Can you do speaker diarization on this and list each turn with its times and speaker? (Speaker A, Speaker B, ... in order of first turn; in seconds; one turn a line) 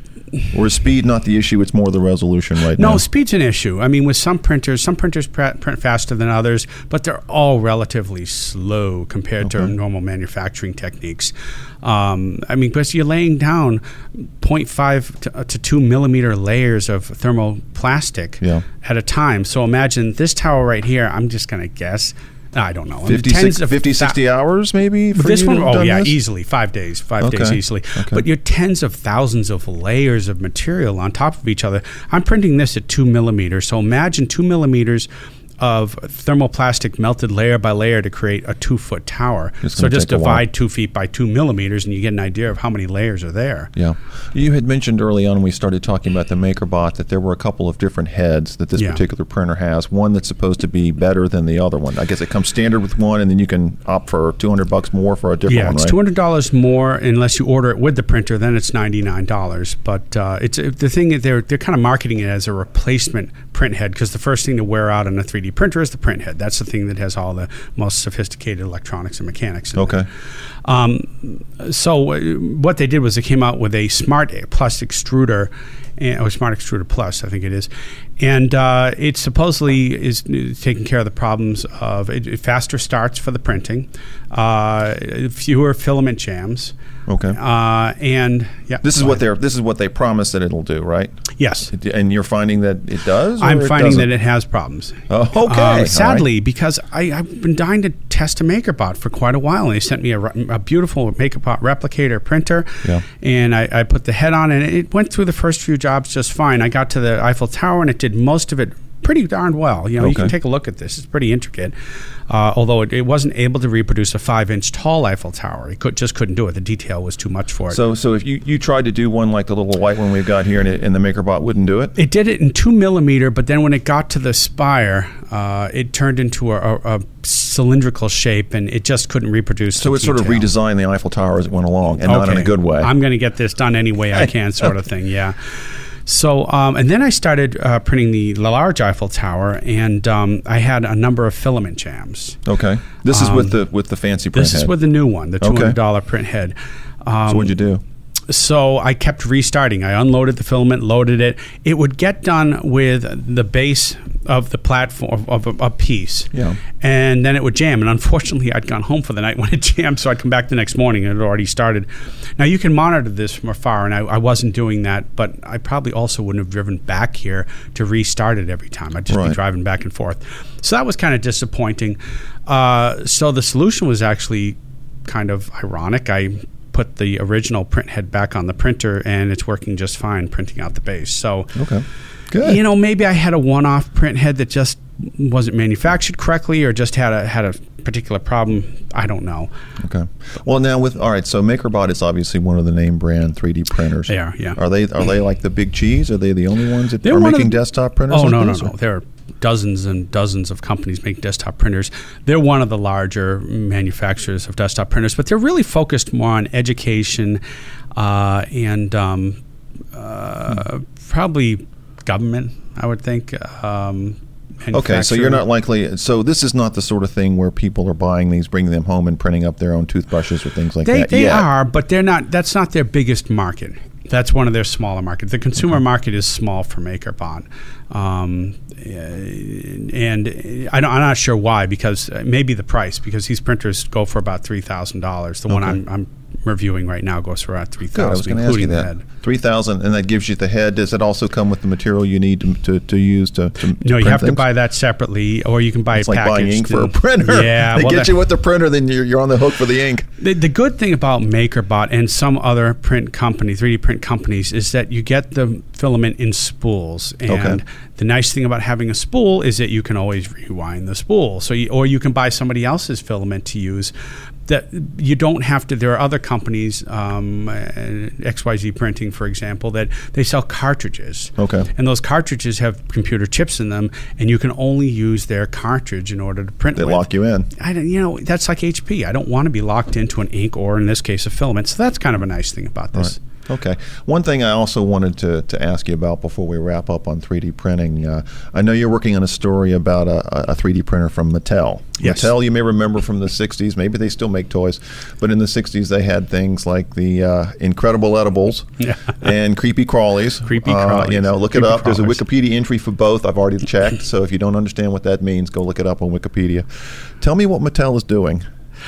Speaker A: 0.5-3.0
Speaker B: 2.7-24.2
Speaker A: 9.4-9.7
Speaker A: 23.1-26.1
Speaker B: 25.1-35.1
Speaker A: 27.2-28.2
Speaker B: 35.6-43.7
Speaker A: 39.6-40.4
Speaker A: 43.8-56.0
Speaker B: 48.8-49.0
Speaker B: 55.5-70.0
Speaker A: 69.7-70.0
Speaker B: 70.6-86.7
Speaker A: 87.1-87.4
Speaker B: 87.3-89.2
Speaker A: 88.8-91.1
Speaker B: 91.4-91.7
Speaker A: 91.7-94.1
Speaker B: 93.4-111.7
Speaker A: 95.1-96.3
Speaker A: 110.0-110.3
Speaker B: 112.3-117.8
Speaker A: 117.7-121.9
Speaker B: 122.0-130.5
Speaker A: 129.8-132.9
Speaker B: 132.0-135.3
Speaker B: 136.1-142.4
Speaker A: 142.4-144.7
Speaker B: 143.1-143.6
Speaker B: 144.3-147.6
Speaker A: 145.4-145.8
Speaker A: 147.3-147.8
Speaker B: 148.3-181.5
Speaker A: 169.1-169.4
Speaker A: 181.5-182.6
Speaker B: 182.4-189.5
Speaker A: 189.8-198.7
Speaker B: 194.1-194.6
Speaker B: 197.0-197.6
Speaker B: 198.1-207.4
Speaker B: 207.9-209.4
Speaker B: 209.9-215.4
Speaker A: 214.7-221.5
Speaker B: 220.8-239.0
Speaker A: 235.5-235.8
Speaker A: 237.9-244.4
Speaker B: 243.8-248.1
Speaker A: 245.9-250.1
Speaker B: 250.2-263.9
Speaker A: 257.3-257.6
Speaker B: 264.5-277.1
Speaker A: 271.4-271.7
Speaker A: 276.8-277.5
Speaker B: 277.6-283.2
Speaker A: 282.9-298.7
Speaker B: 292.0-292.3
Speaker A: 299.2-306.6
Speaker B: 300.5-302.2
Speaker A: 307.2-308.4